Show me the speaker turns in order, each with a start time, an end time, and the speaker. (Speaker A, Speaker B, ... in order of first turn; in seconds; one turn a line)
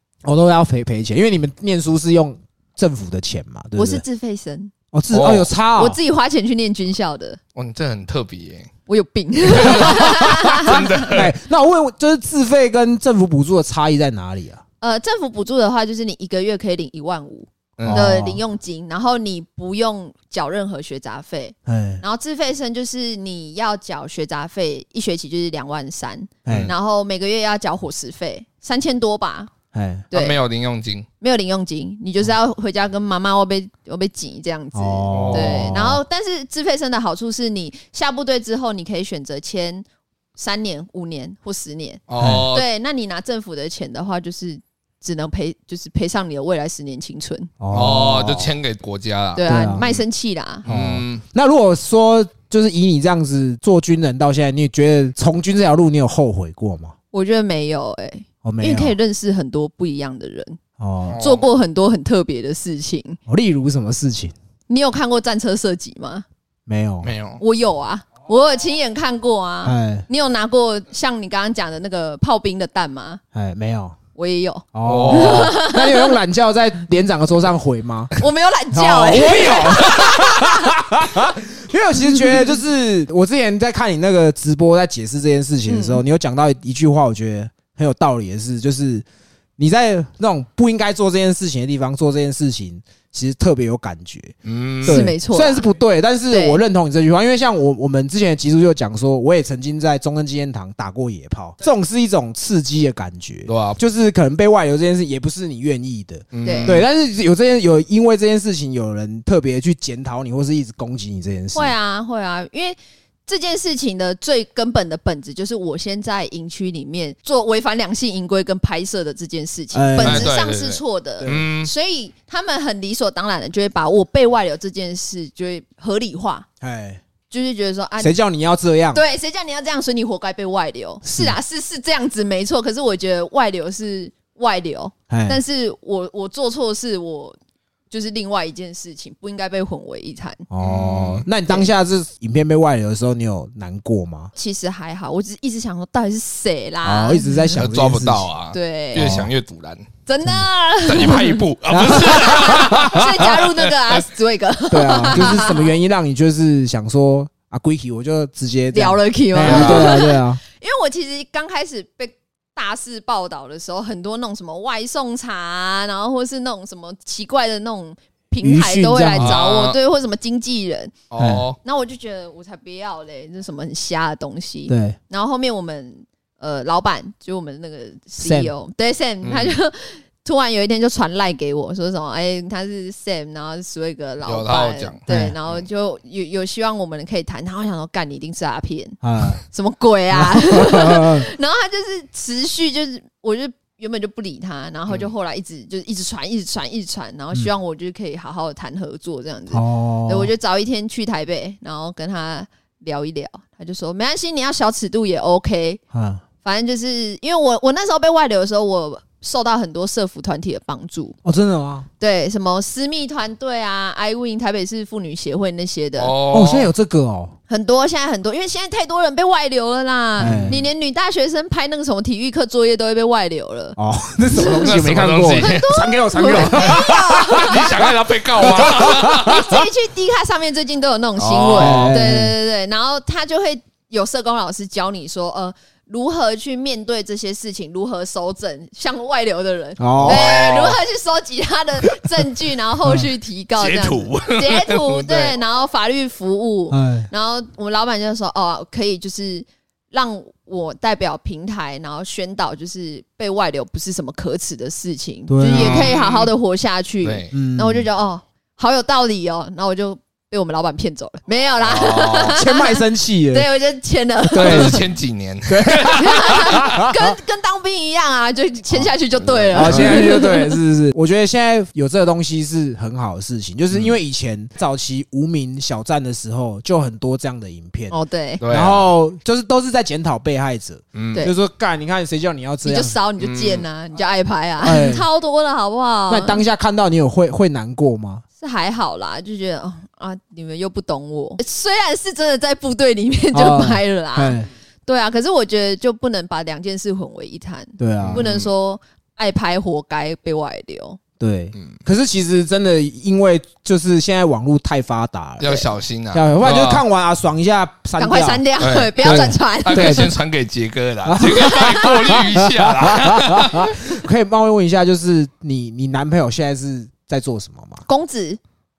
Speaker A: 0.2-4.0
Speaker B: 3.8-4.7
Speaker A: 4.9-6.0
Speaker C: 5.1-5.5
Speaker B: 5.8-7.4
Speaker C: 7.5-8.7
Speaker B: 8.9-11.1
Speaker C: 9.5-11.3
Speaker A: 9.6-14.6
Speaker B: 14.8-29.5
Speaker C: 17.8-18.1
Speaker A: 17.8-18.4
Speaker A: 21.6-22.0
Speaker A: 26.4-26.7
Speaker C: 26.5-26.7
Speaker A: 29.7-30.1
Speaker B: 30.1-30.4
Speaker C: 30.1-31.1
Speaker B: 31.2-39.8
Speaker A: 34.7-36.0
Speaker C: 35.1-35.8
Speaker B: 40.4-47.5
Speaker C: 42.1-42.6
Speaker A: 42.2-42.5
Speaker A: 47.6-48.5
Speaker C: 47.7-50.0
Speaker B: 49.4-50.6
Speaker A: 49.5-49.9
Speaker C: 50.6-51.2
Speaker A: 50.6-56.9
Speaker B: 57.1-60.6
Speaker A: 58.4-58.9
Speaker A: 60.8-61.2
Speaker C: 61.1-61.5
Speaker B: 61.2-63.2
Speaker A: 63.3-64.3
Speaker B: 64.7-66.2
Speaker A: 66.7-67.1
Speaker C: 67.0-67.4
Speaker B: 67.4-73.2
Speaker A: 69.6-70.0
Speaker A: 73.3-74.0
Speaker B: 74.2-76.1
Speaker A: 74.7-78.1
Speaker C: 74.8-75.5
Speaker B: 78.2-80.7
Speaker A: 78.7-89.0
Speaker B: 85.7-86.0
Speaker A: 89.6-111.7
Speaker C: 94.4-95.1
Speaker B: 94.8-95.7
Speaker B: 96.3-96.6
Speaker C: 103.5-103.8
Speaker C: 106.3-106.8
Speaker B: 106.4-106.8
Speaker B: 111.5-126.5
Speaker A: 119.7-120.3
Speaker C: 120.0-121.7
Speaker A: 121.2-121.5
Speaker A: 126.6-127.0
Speaker B: 127.3-128.1
Speaker A: 128.0-129.0
Speaker B: 128.9-137.4
Speaker A: 131.0-131.4
Speaker A: 135.1-135.4
Speaker B: 137.9-140.4
Speaker A: 140.5-144.3
Speaker C: 140.6-141.2
Speaker B: 144.3-147.5
Speaker A: 146.8-148.3
Speaker C: 147.6-149.9
Speaker B: 148.5-149.1
Speaker A: 148.9-149.3
Speaker B: 150.1-151.4
Speaker C: 150.8-154.0
Speaker A: 151.7-153.3
Speaker B: 152.1-155.7
Speaker A: 154.7-160.4
Speaker B: 158.7-170.9
Speaker C: 159.4-160.0
Speaker A: 168.4-169.4
Speaker C: 169.2-169.8
Speaker C: 171.1-171.6
Speaker A: 171.2-171.4
Speaker B: 171.6-205.8
Speaker A: 174.7-175.0
Speaker A: 178.2-178.5
Speaker C: 179.2-179.6
Speaker C: 184.2-185.6
Speaker A: 185.1-185.3
Speaker A: 189.0-189.4
Speaker A: 190.1-191.2
Speaker A: 199.5-200.3
Speaker A: 205.9-206.2
Speaker B: 206.4-211.2
Speaker A: 211.2-211.9
Speaker B: 212.0-216.1
Speaker C: 216.0-216.7
Speaker A: 216.3-217.3
Speaker B: 217.5-223.8
Speaker A: 220.2-220.6
Speaker C: 220.2-220.6
Speaker A: 223.8-229.6
Speaker B: 224.4-224.6
Speaker C: 224.6-225.7
Speaker B: 225.4-227.8
Speaker C: 226.3-226.8
Speaker C: 227.3-229.4
Speaker B: 228.4-264.9
Speaker C: 231.2-232.0
Speaker A: 231.6-232.3
Speaker A: 239.8-240.2
Speaker C: 240.0-240.8
Speaker C: 243.6-245.3
Speaker A: 246.7-247.1
Speaker A: 255.3-255.9
Speaker C: 255.5-256.3
Speaker C: 257.0-257.3
Speaker A: 257.3-257.9
Speaker C: 261.6-262.4
Speaker A: 262.3-263.5
Speaker A: 264.3-264.9
Speaker C: 264.3-266.7
Speaker A: 265.5-267.1
Speaker B: 265.9-270.6
Speaker C: 269.1-270.2
Speaker A: 269.5-283.0
Speaker B: 277.9-278.4
Speaker C: 278.4-278.9
Speaker C: 280.9-281.3
Speaker B: 282.6-286.4
Speaker C: 283.2-283.6
Speaker A: 284.6-285.1
Speaker A: 286.1-288.2
Speaker B: 288.4-301.0
Speaker A: 293.3-294.5
Speaker A: 297.8-298.2
Speaker C: 298.0-298.5
Speaker A: 301.2-305.5
Speaker C: 305.4-306.8
Speaker A: 306.1-308.4
Speaker B: 308.0-310.1
Speaker C: 308.6-313.9
Speaker A: 309.0-310.1
Speaker A: 311.0-317.8
Speaker B: 311.2-312.1
Speaker B: 317.9-318.4